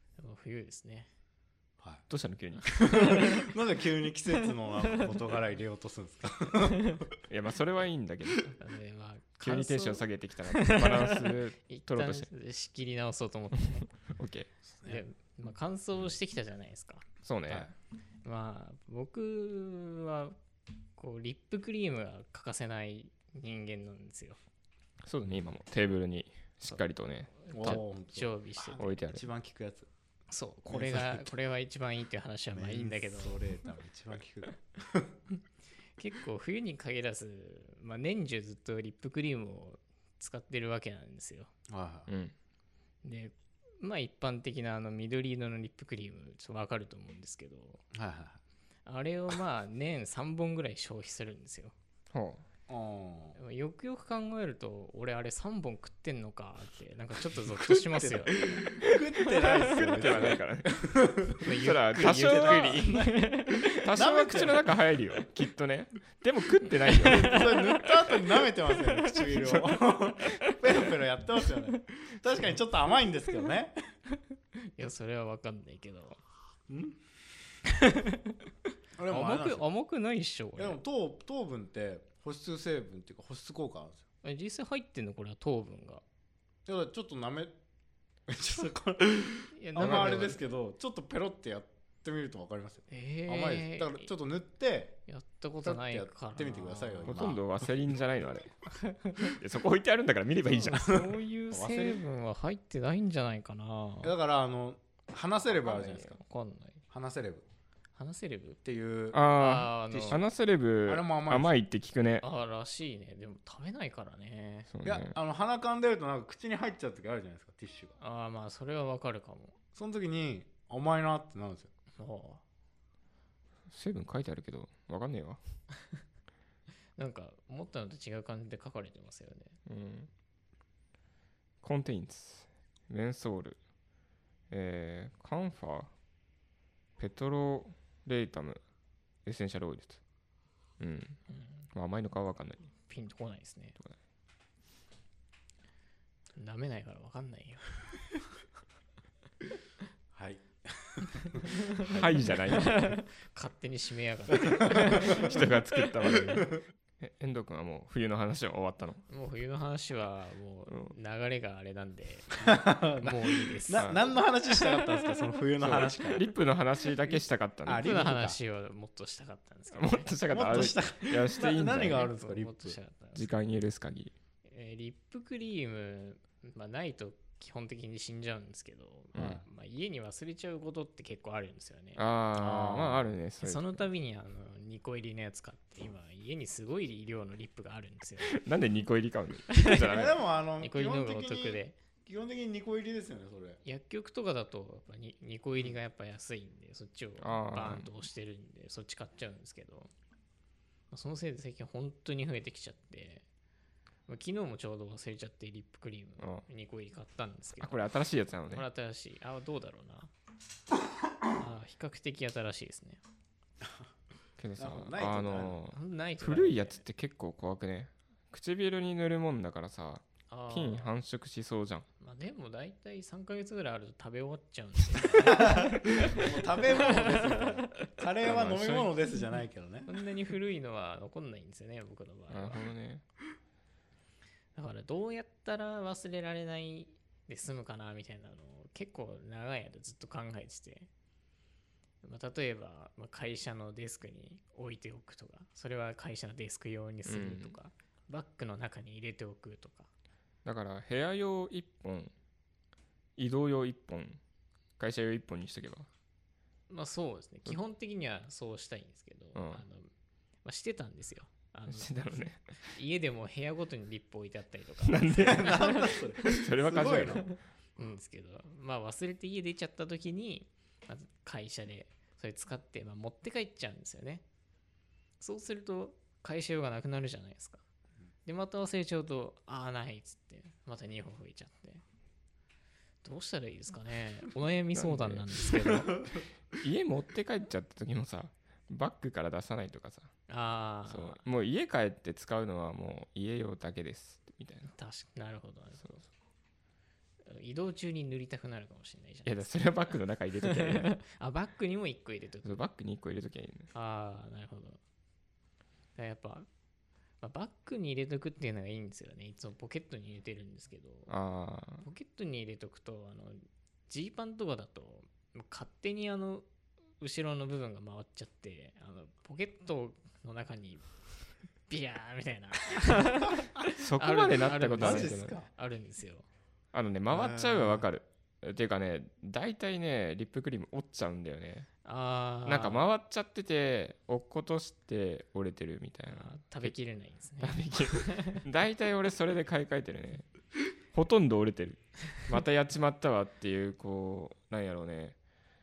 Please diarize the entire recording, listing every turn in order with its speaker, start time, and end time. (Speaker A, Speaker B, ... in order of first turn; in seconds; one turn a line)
Speaker A: 0.2-1.1
Speaker B: 1.8-2.0
Speaker C: 2.1-3.4
Speaker B: 2.8-7.1
Speaker A: 2.8-3.4
Speaker C: 7.3-8.6
Speaker A: 8.6-13.9
Speaker C: 9.4-12.3
Speaker C: 13.6-14.5
Speaker A: 14.8-17.0
Speaker C: 17.2-17.7
Speaker A: 18.2-20.4
Speaker A: 21.0-24.4
Speaker C: 25.0-27.8
Speaker A: 27.4-28.9
Speaker B: 27.5-29.9
Speaker C: 28.8-29.2
Speaker A: 30.3-33.5
Speaker B: 30.6-31.3
Speaker B: 32.5-35.2
Speaker A: 36.0-41.5
Speaker B: 41.7-42.1
Speaker C: 42.1-42.3
Speaker A: 43.0-47.8
Speaker B: 47.9-48.4
Speaker A: 48.9-51.7
Speaker C: 52.1-52.4
Speaker B: 52.7-53.4
Speaker A: 53.4-58.5
Speaker B: 57.9-64.7
Speaker C: 58.7-67.6
Speaker A: 59.4-59.8
Speaker A: 61.4-63.8
Speaker A: 66.7-69.3
Speaker B: 66.9-73.7
Speaker A: 74.6-76.2
Speaker B: 76.7-77.0
Speaker A: 77.7-78.4
Speaker B: 79.0-79.7
Speaker A: 79.1-80.8
Speaker B: 80.6-84.0
Speaker A: 84.2-86.0
Speaker B: 86.7-87.5
Speaker B: 88.3-95.0
Speaker A: 89.5-90.4
Speaker C: 89.8-90.3
Speaker A: 92.9-94.1
Speaker A: 95.1-97.2
Speaker B: 95.6-97.4
Speaker C: 97.1-98.5
Speaker A: 98.7-99.4
Speaker C: 99.2-100.9
Speaker B: 100.5-102.0
Speaker A: 100.5-104.1
Speaker B: 104.0-106.2
Speaker A: 105.5-106.8
Speaker B: 106.9-107.5
Speaker A: 107.9-108.6
Speaker B: 108.6-109.2
Speaker C: 109.1-112.2
Speaker A: 109.3-110.2
Speaker B: 109.9-110.2
Speaker B: 110.8-111.5
Speaker A: 112.2-114.7
Speaker C: 114.7-115.2
Speaker B: 114.8-118.0
Speaker A: 118.0-119.5
Speaker B: 119.7-121.7
Speaker A: 122.0-122.4
Speaker C: 123.7-125.4
Speaker A: 127.0-129.6
Speaker C: 129.7-130.1
Speaker C: 131.6-133.6
Speaker C: 134.5-135.9
Speaker C: 137.0-138.6
Speaker C: 139.2-140.0
Speaker C: 140.8-141.2
Speaker A: 141.3-141.7
Speaker C: 141.7-142.6
Speaker A: 142.8-143.8
Speaker A: 146.4-147.8
Speaker B: 150.1-152.0
Speaker A: 151.1-155.6
Speaker C: 151.8-152.9
Speaker B: 154.4-155.4
Speaker C: 154.7-159.0
Speaker B: 156.0-156.6
Speaker A: 159.1-164.9
Speaker C: 160.7-160.9
Speaker B: 162.3-166.3
Speaker C: 163.8-164.0
Speaker C: 165.6-168.1
Speaker B: 167.7-168.4
Speaker A: 167.7-170.2
Speaker C: 169.7-172.1
Speaker B: 170.3-172.8
Speaker A: 171.9-173.2
Speaker C: 173.1-174.1
Speaker A: 174.4-182.0
Speaker C: 179.1-179.4
Speaker B: 179.2-179.4
Speaker C: 182.0-183.8
Speaker B: 182.3-183.1
Speaker A: 183.4-188.3
Speaker C: 188.3-190.2
Speaker A: 189.5-189.9
Speaker B: 189.7-193.6
Speaker A: 190.6-191.8
Speaker A: 193.6-199.9
Speaker C: 197.2-198.0
Speaker A: 200.9-203.2
Speaker A: 204.1-207.9
Speaker C: 206.2-206.4
Speaker C: 207.6-208.7
Speaker A: 208.5-210.1
Speaker A: 211.3-213.0
Speaker B: 213.6-213.9
Speaker C: 214.4-221.9
Speaker B: 214.6-215.6
Speaker A: 215.7-216.8
Speaker A: 220.3-220.9
Speaker A: 222.0-227.9
Speaker B: 225.1-229.9
Speaker C: 228.2-228.9
Speaker A: 229.9-232.6
Speaker C: 232.3-233.0
Speaker A: 234.6-240.9
Speaker A: 242.0-249.9
Speaker C: 247.1-247.6
Speaker C: 250.4-252.1
Speaker C: 253.2-254.2
Speaker C: 254.8-255.9
Speaker A: 256.7-259.9
Speaker C: 259.3-259.6
Speaker A: 260.4-266.0
Speaker C: 261.7-262.7
Speaker C: 264.8-267.3
Speaker B: 265.2-267.2
Speaker A: 267.0-274.2
Speaker A: 275.2-277.6
Speaker A: 278.2-281.8
Speaker A: 283.0-286.0
Speaker C: 284.7-290.1
Speaker A: 290.3-291.2
Speaker C: 290.9-294.7
Speaker A: 294.7-296.1
Speaker A: 297.2-302.6
Speaker C: 299.2-301.0
Speaker C: 302.4-303.7
Speaker A: 303.7-304.8
Speaker A: 305.9-306.5
Speaker A: 307.2-311.1
Speaker C: 311.1-311.9
Speaker A: 311.8-316.4
Speaker A: 317.0-320.9
Speaker A: 321.7-326.3
Speaker C: 323.6-325.4
Speaker B: 324.8-325.5
Speaker C: 326.7-331.7
Speaker B: 327.1-327.9
Speaker A: 331.8-332.9
Speaker C: 332.4-336.7
Speaker A: 336.1-338.4
Speaker C: 337.4-340.3
Speaker C: 340.9-345.2